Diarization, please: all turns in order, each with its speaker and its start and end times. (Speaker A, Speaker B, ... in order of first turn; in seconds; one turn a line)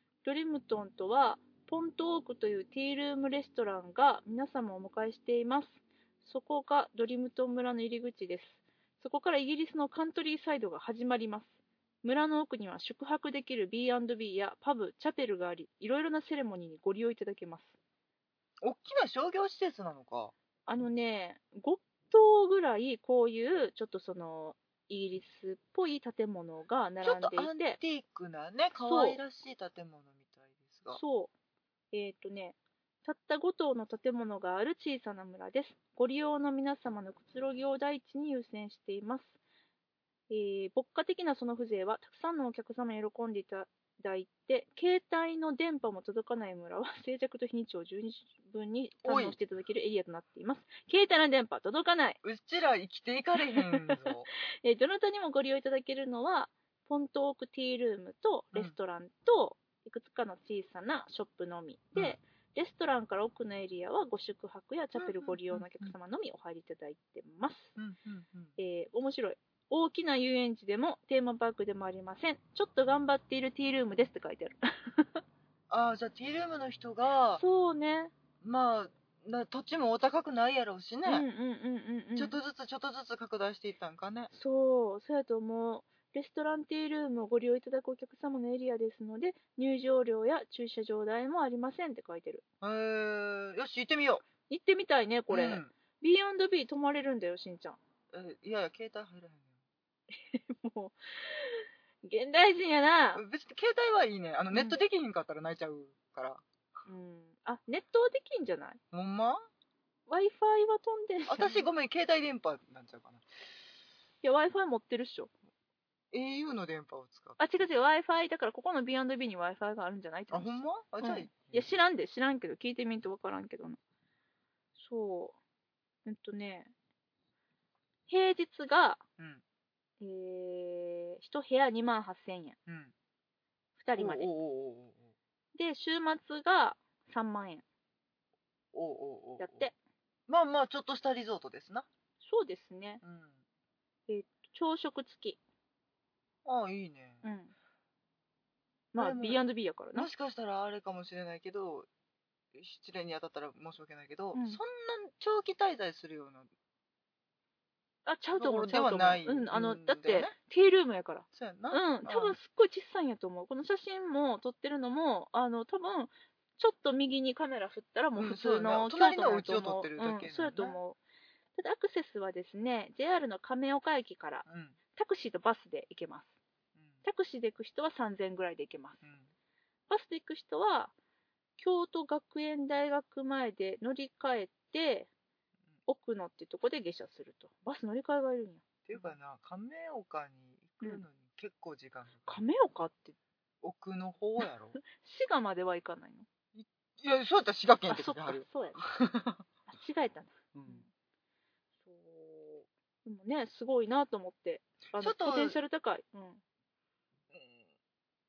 Speaker A: 0.2-17.8
Speaker B: 18.6-20.3
Speaker A: 20.7-27.8
Speaker B: 27.0-31.0
Speaker A: 28.8-29.2
Speaker A: 30.9-31.3
Speaker A: 31.9-39.4
Speaker A: 40.3-52.2
Speaker B: 49.0-49.4
Speaker B: 52.2-54.3
Speaker A: 53.5-54.0
Speaker A: 54.6-67.8
Speaker B: 65.0-65.9
Speaker B: 67.8-68.6
Speaker A: 68.6-75.2
Speaker B: 75.7-77.4
Speaker A: 77.4-78.1
Speaker B: 78.4-81.3
Speaker A: 81.0-82.4
Speaker B: 82.2-84.3
Speaker A: 84.3-92.4
Speaker B: 92.6-94.2
Speaker A: 94.5-97.8
Speaker B: 95.3-95.7
Speaker B: 98.1-99.5
Speaker A: 100.1-103.2
Speaker B: 103.2-106.4
Speaker A: 104.5-104.8
Speaker A: 106.9-108.8
Speaker B: 108.9-109.4
Speaker A: 110.1-111.7
Speaker B: 111.3-113.3
Speaker A: 114.2-115.3
Speaker B: 116.1-117.4
Speaker A: 117.4-123.8
Speaker B: 120.3-121.7
Speaker A: 124.8-125.4
Speaker A: 126.1-126.7
Speaker A: 128.1-129.0
Speaker A: 130.0-132.6
Speaker B: 132.7-132.9
Speaker A: 133.8-134.3
Speaker B: 134.0-135.1
Speaker A: 135.6-137.7
Speaker B: 138.7-139.7
Speaker A: 139.4-139.7
Speaker B: 140.3-141.9
Speaker A: 142.2-143.0
Speaker B: 143.0-143.4
Speaker A: 144.1-145.4
Speaker B: 146.4-147.2
Speaker A: 147.2-147.5
Speaker A: 148.9-150.1
Speaker B: 149.0-149.4
Speaker B: 149.9-151.9
Speaker B: 152.5-156.5
Speaker A: 154.3-154.6
Speaker A: 158.1-171.0
Speaker B: 158.4-160.3
Speaker B: 161.3-162.4
Speaker B: 168.2-170.8
Speaker A: 171.6-176.4
Speaker B: 174.5-174.8
Speaker B: 176.8-177.0
Speaker A: 177.0-179.0
Speaker B: 179.0-179.3
Speaker A: 179.9-180.9
Speaker A: 181.6-185.1
Speaker A: 185.9-189.1
Speaker B: 188.9-192.4
Speaker A: 192.3-193.2
Speaker B: 193.6-194.8
Speaker A: 194.8-196.3
Speaker B: 196.5-199.4
Speaker A: 197.9-198.9
Speaker A: 199.7-200.9
Speaker B: 200.6-200.8
Speaker A: 201.8-206.4
Speaker B: 204.9-205.6
Speaker B: 207.3-207.6